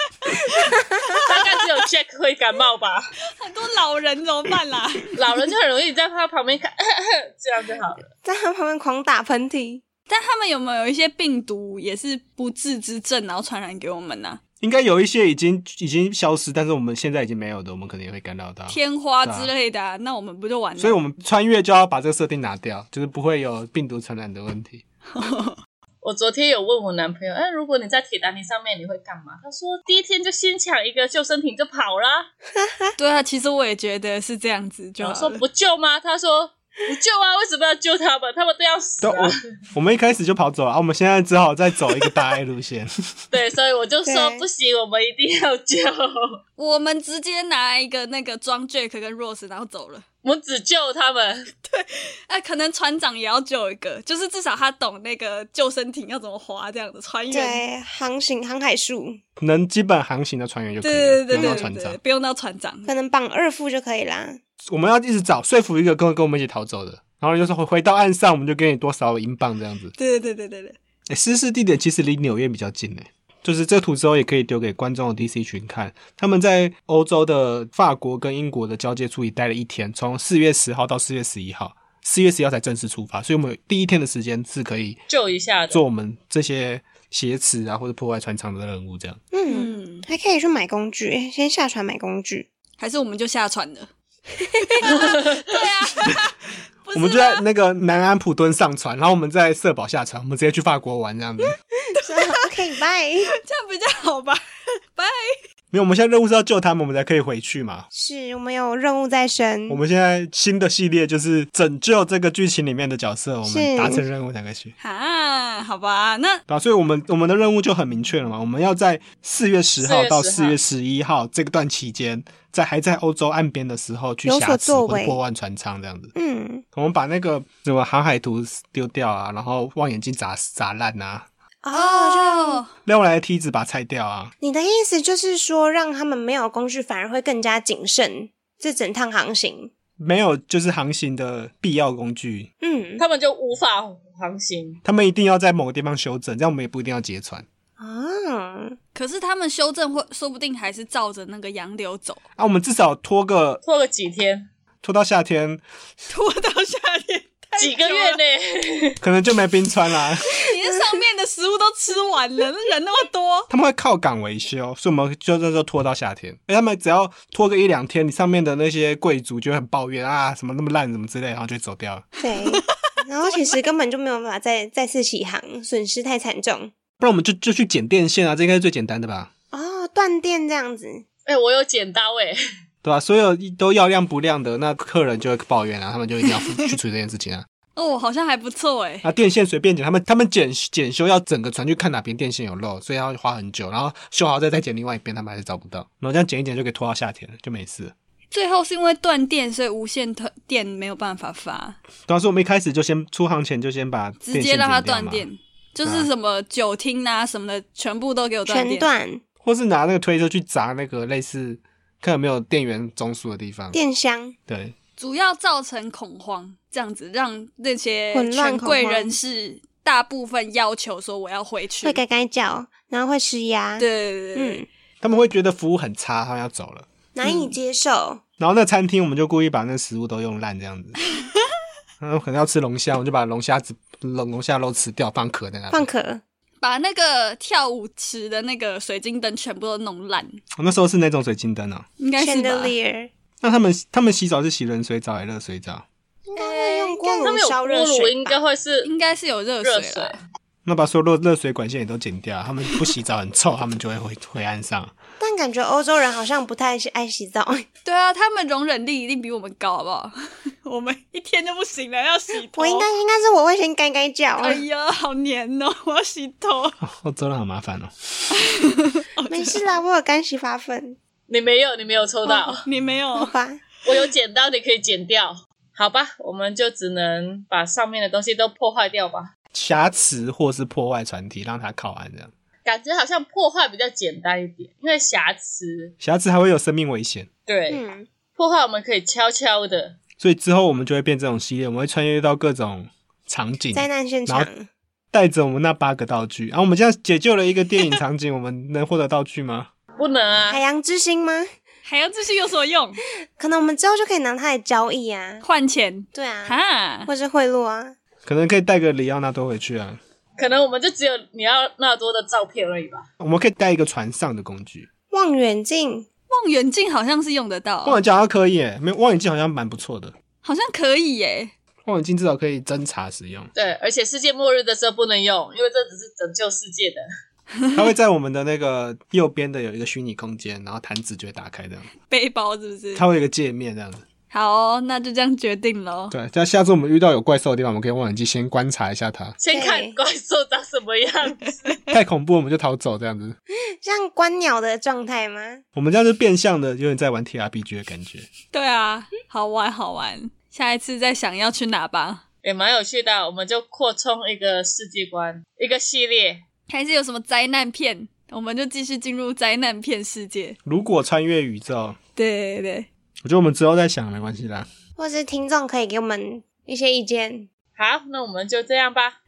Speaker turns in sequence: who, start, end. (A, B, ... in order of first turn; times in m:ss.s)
0:00.1-0:01.4 A
0:00.6-0:01.1 B
0:01.2-0:03.1 C
0:03.3-0:05.2 A
0:05.1-0:08.0 C
0:08.2-0:09.8 B
0:10.1-0:14.4 A
0:14.6-0:19.5 D
0:18.7-0:21.0 A
0:20.8-0:24.8 D
0:25.1-0:25.6 A
0:26.0-0:32.3 C
0:32.5-0:32.9 B
0:33.0-0:35.4 A
0:35.0-0:39.3 C
0:39.0-0:43.1 D
0:43.3-0:46.4 C
0:44.0-0:44.4 B
0:46.6-0:50.0 A
0:50.2-0:51.5 C
0:51.6-0:57.6 A
0:57.3-0:59.2 B
0:59.4-1:02.0 D
1:00.8-1:02.9 A
1:01.3-1:01.7 B
1:02.9-1:04.4 B
1:04.7-1:09.9 D
1:10.0-1:10.8 A
1:11.1-1:25.0 D
1:25.1-1:25.8 C
1:25.7-1:29.2 D
1:29.3-1:32.5 B
1:29.5-1:30.0 A
1:32.8-1:33.9 A
1:34.6-1:37.4 A
1:36.9-1:41.6 D
1:41.9-1:43.3 B
1:42.0-1:42.4 A
1:43.4-1:44.4 A
1:44.9-1:45.4 A
1:45.7-1:47.9 D
1:47.9-1:49.8 B
1:49.7-1:54.7 D
1:53.4-1:54.0 B
1:54.8-1:56.4 A
1:56.5-2:06.1 D
1:59.8-2:00.6 C
2:04.2-2:05.2 B
2:06.1-2:06.6 B
2:06.7-2:11.3 D
2:11.6-2:12.6 B
2:11.7-2:12.7 A
2:12.8-2:14.3 D
2:14.4-2:19.7 B
2:20.0-2:22.5 D
2:22.6-2:23.0 B
2:23.0-2:24.8 C
2:24.8-2:27.4 D
2:27.8-2:28.8 B
2:28.9-2:32.2 A
2:32.4-2:33.6 D
2:33.6-2:34.5 C
2:34.8-2:35.6 D
2:36.1-2:38.2 A
2:37.6-2:39.0 C
2:39.0-2:40.4 D
2:40.2-2:43.5 A
2:43.5-2:52.1 D
2:52.2-2:56.7 B
2:52.5-2:52.9 A
2:57.0-2:59.3 D
2:59.5-3:01.0 B
3:01.2-3:02.4 C
3:02.8-3:07.4 D
3:07.8-3:09.1 A
3:09.0-3:17.9 D
3:18.3-3:21.8 A
3:22.1-3:25.2 D
3:24.2-3:28.9 A
3:28.5-3:29.2 B
3:29.4-3:33.8 D
3:33.7-3:34.4 B
3:34.5-3:34.7 D
3:35.0-3:42.0 A
3:38.1-3:39.1 B
3:41.8-3:44.6 B
3:43.8-3:44.6 A
3:45.0-3:46.9 D
3:47.1-3:48.2 B
3:47.2-3:47.5 A
3:48.4-3:51.0 D
3:52.0-3:55.9 D
3:55.7-3:56.2 B
3:56.6-4:00.4 A
4:00.6-4:01.9 D
4:02.0-4:02.7 A
4:02.2-4:03.1 B
4:03.4-4:05.8 D
4:06.3-4:08.4 B
4:06.4-4:08.9 C
4:06.4-4:07.2 A
4:08.8-4:10.1 A
4:09.6-4:10.2 C
4:10.6-4:15.0 D
4:15.2-4:17.6 B
4:17.8-4:22.9 A
4:22.5-4:24.6 B
4:24.4-4:26.8 A
4:26.8-4:27.9 D
4:28.3-4:29.6 A
4:29.3-4:31.0 B
4:31.3-4:32.6 C
4:32.2-4:33.3 A
4:33.1-4:33.6 B
4:33.8-4:39.3 C
4:39.5-4:42.3 D
4:42.6-4:45.9 C
4:46.0-4:47.3 D
4:47.5-4:47.8 C
4:47.7-4:48.1 B
4:48.4-4:50.0 C
4:50.2-4:54.5 D
4:53.7-4:54.7 B
4:55.1-4:59.7 D
5:00.0-5:00.6 C
5:00.5-5:01.5 B
5:01.8-5:03.0 A
5:03.4-5:05.4 B
5:05.4-5:07.1 A
5:06.1-5:08.0 B
5:08.2-5:10.0 D
5:10.4-5:13.1 C
5:13.2-5:14.9 D
5:15.1-5:16.1 B
5:16.3-5:18.0 A
5:17.8-5:20.1 D
5:20.4-5:21.5 A
5:21.8-5:23.5 D
5:23.5-5:27.0 C
5:27.7-5:31.9 D
5:32.1-5:33.0 A
5:32.9-5:34.0 D
5:34.3-5:36.1 A
5:36.1-5:39.4 D
5:39.4-5:41.7 C
5:39.5-5:40.0 B
5:41.9-5:43.4 D
5:43.5-5:45.6 B
5:45.7-5:48.3 D
5:48.5-5:52.2 A
5:52.4-5:56.4 C
5:56.7-6:00.6 A
6:00.6-6:02.0 D
6:02.2-6:02.9 A
6:03.2-6:04.7 D
6:05.0-6:07.5 B
6:07.8-6:09.2 C